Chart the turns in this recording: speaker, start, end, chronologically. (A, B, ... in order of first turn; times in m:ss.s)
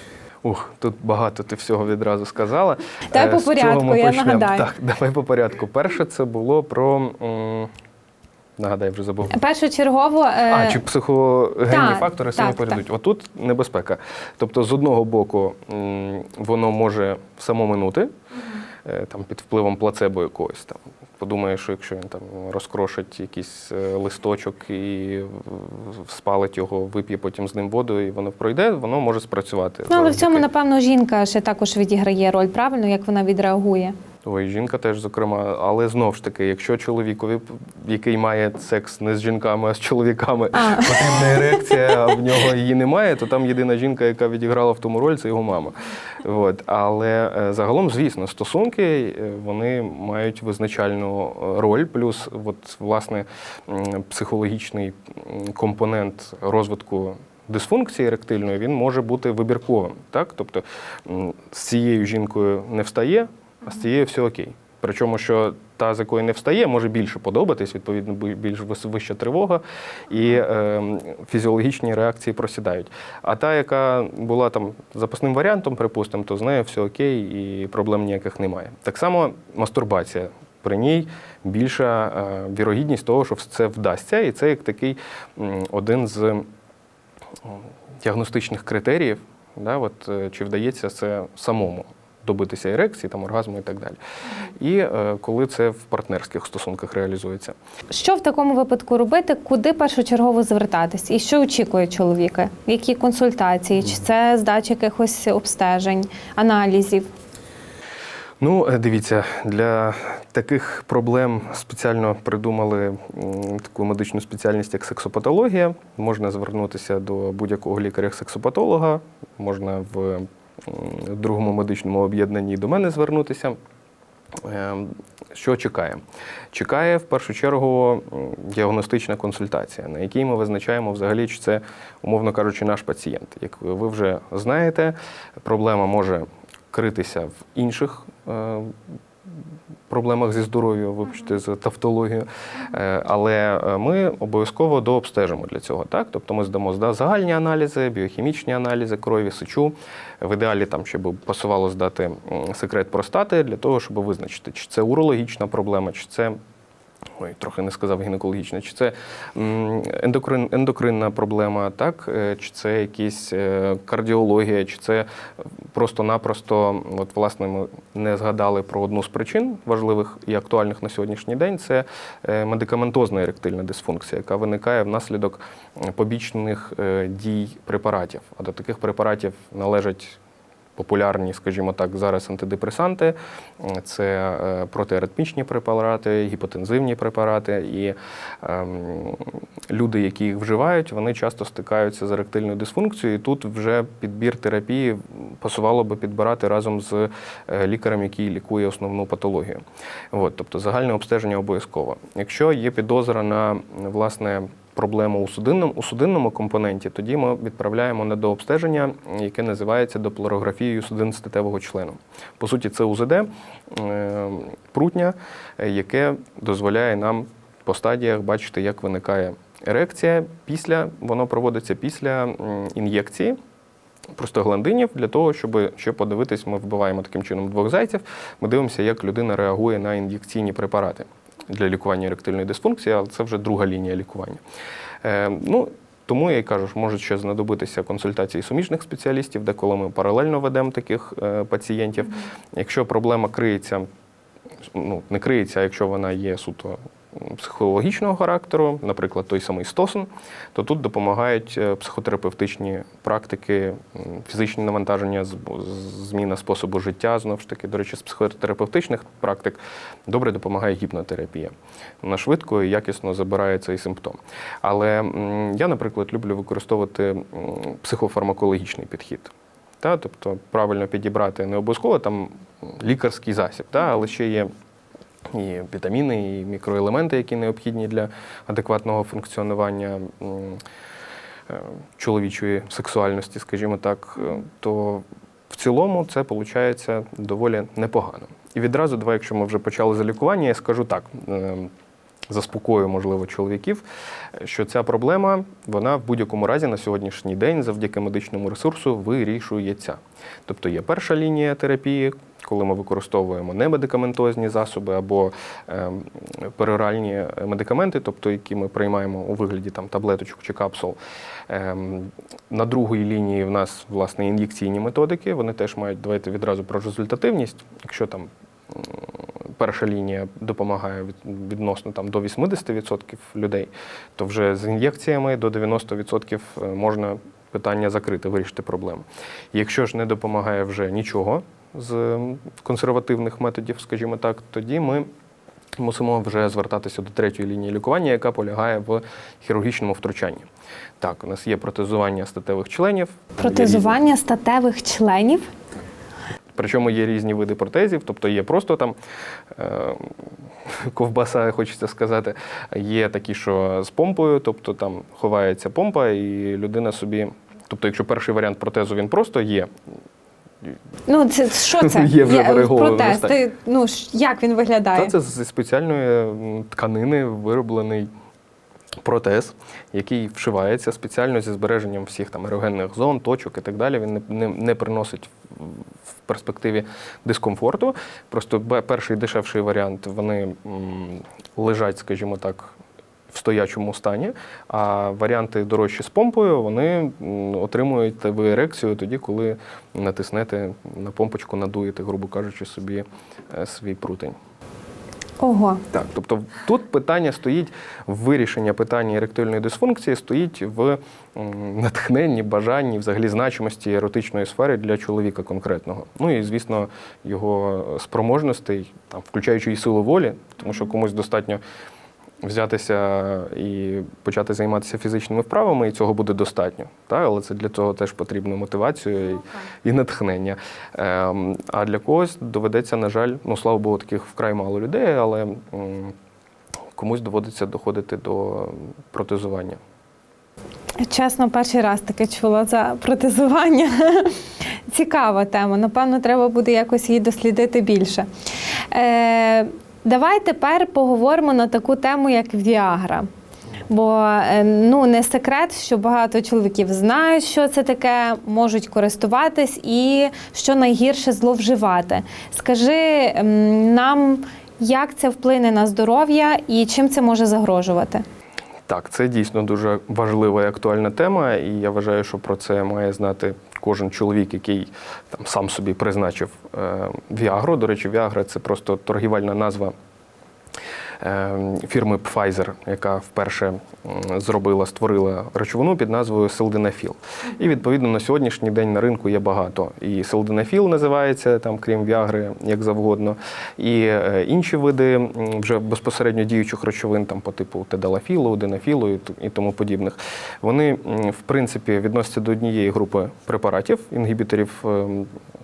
0:00.4-0:07.7 A
0:03.1-0:04.7 B
0:08.6-0:09.3 A
0:09.3-0:10.8 B
0:10.5-0:18.1 A
0:11.7-0:12.8 B
0:18.8-0:30.4 A
0:29.9-0:34.0 B
0:34.2-1:26.5 A
0:40.5-0:42.1 B
1:27.4-1:34.0 A
1:34.5-1:37.6 A
1:37.9-1:47.1 B
1:48.4-2:03.6 A
2:04.3-2:06.0 A
2:06.5-2:18.8 A
2:19.9-2:36.4 A
2:37.2-2:45.0 A
2:45.7-3:00.2 A
3:00.8-3:43.4 A
3:44.1-3:54.4 A
3:55.0-4:03.9 A
4:04.7-4:34.5 A
4:35.3-4:40.6 A
4:41.5-4:51.7 A
4:52.3-4:53.8 A
4:54.4-5:11.0 A
5:11.5-5:35.1 A
5:35.8-5:40.5 A
5:41.0-5:44.0 A
5:43.4-5:45.5 B
5:46.5-5:49.0 A
5:49.5-5:59.7 A
6:01.1-6:05.1 B
6:01.8-6:03.4 A
6:04.9-6:08.1 A
6:09.0-6:22.7 A
6:23.3-6:34.4 A
6:35.4-6:35.8 B
6:35.9-6:51.6 A
6:52.4-7:06.1 A
7:07.0-7:09.8 A
7:11.0-7:18.3 B
7:18.9-7:23.3 B
7:23.9-7:38.2 B
7:38.9-7:49.9 A
7:51.2-8:15.3 A